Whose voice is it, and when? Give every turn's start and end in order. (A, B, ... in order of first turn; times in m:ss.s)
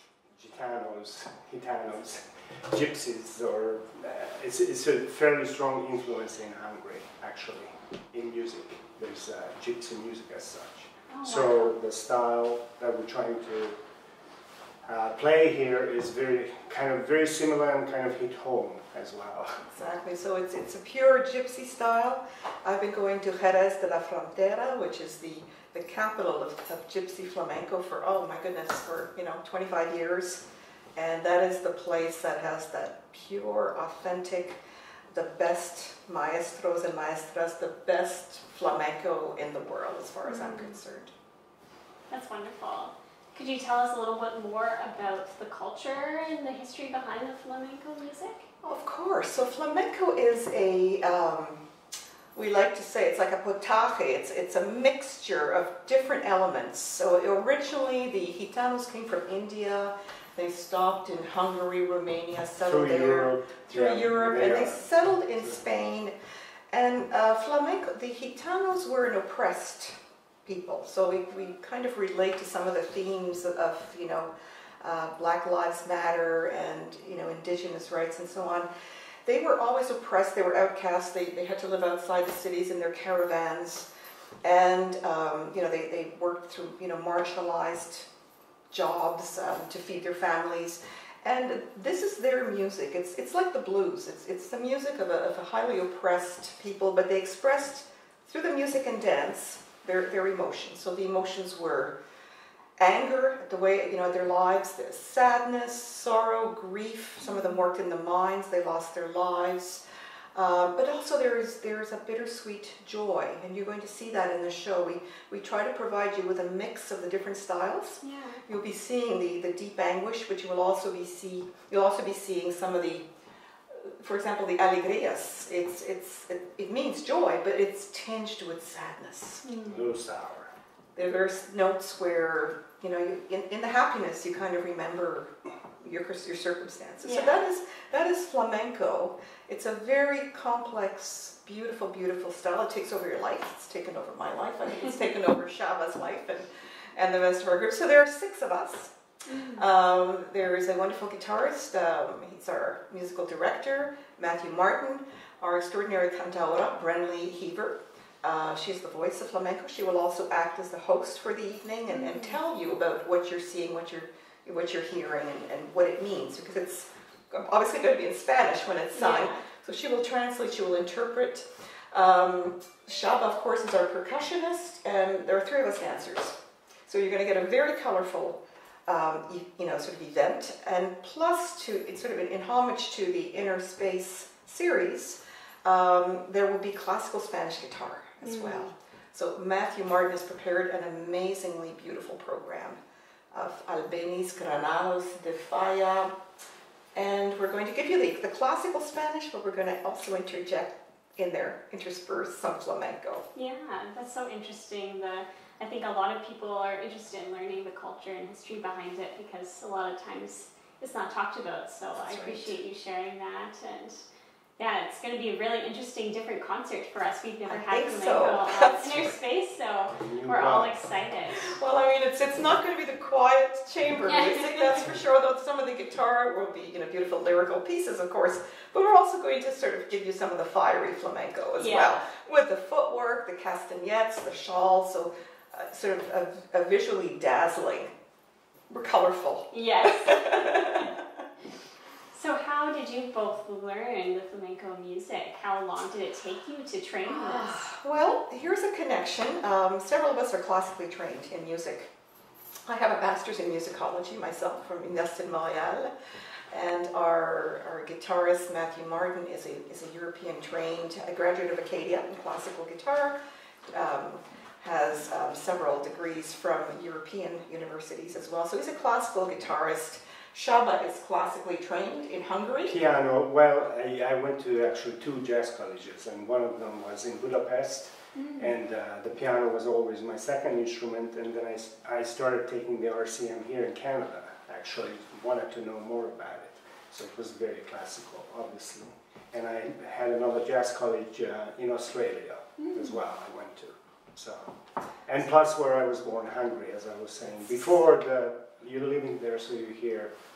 0:00.4-0:13.8 A
0:11.1-0:11.7 B
0:14.8-0:19.6 A
0:19.7-0:34.6 C
0:35.1-0:41.1 C
0:40.2-0:40.8 B
0:42.1-0:48.4 B
0:48.6-0:51.6 C
0:52.3-1:06.1 C
1:02.6-1:05.6 A
1:06.7-1:09.9 C
1:10.4-1:14.3 C
1:14.8-1:18.7 C
1:19.2-1:23.9 C
1:24.4-1:28.0 C
1:28.7-1:42.0 C
1:42.8-1:49.8 C
1:47.2-1:47.6 B
1:50.3-2:03.0 C
1:58.0-1:58.4 B
2:04.0-2:09.4 C
2:09.4-2:09.9 B
2:09.6-2:10.5 A
2:10.9-2:28.9 C
2:17.0-2:17.4 B
2:29.3-2:29.7 B
2:29.5-3:12.8 C
2:41.9-2:42.4 B
2:48.9-2:49.4 B
3:08.2-3:08.7 B
3:13.3-3:16.1 C
3:16.9-3:23.2 C
3:23.3-3:34.0 B
3:32.1-3:32.6 C
3:34.6-3:41.5 B
3:37.4-3:39.2 C
3:40.0-3:40.7 A
3:41.4-3:57.9 C
3:44.0-3:44.9 B
3:51.6-3:52.0 B
3:58.7-4:01.0 C
3:59.5-4:00.9 B
4:02.1-4:07.7 B
4:07.0-4:11.9 C
4:12.7-4:15.9 C
4:16.5-4:23.2 C
4:23.7-4:32.8 C
4:32.6-5:00.1 A
4:38.1-4:38.5 B
4:52.6-4:53.0 B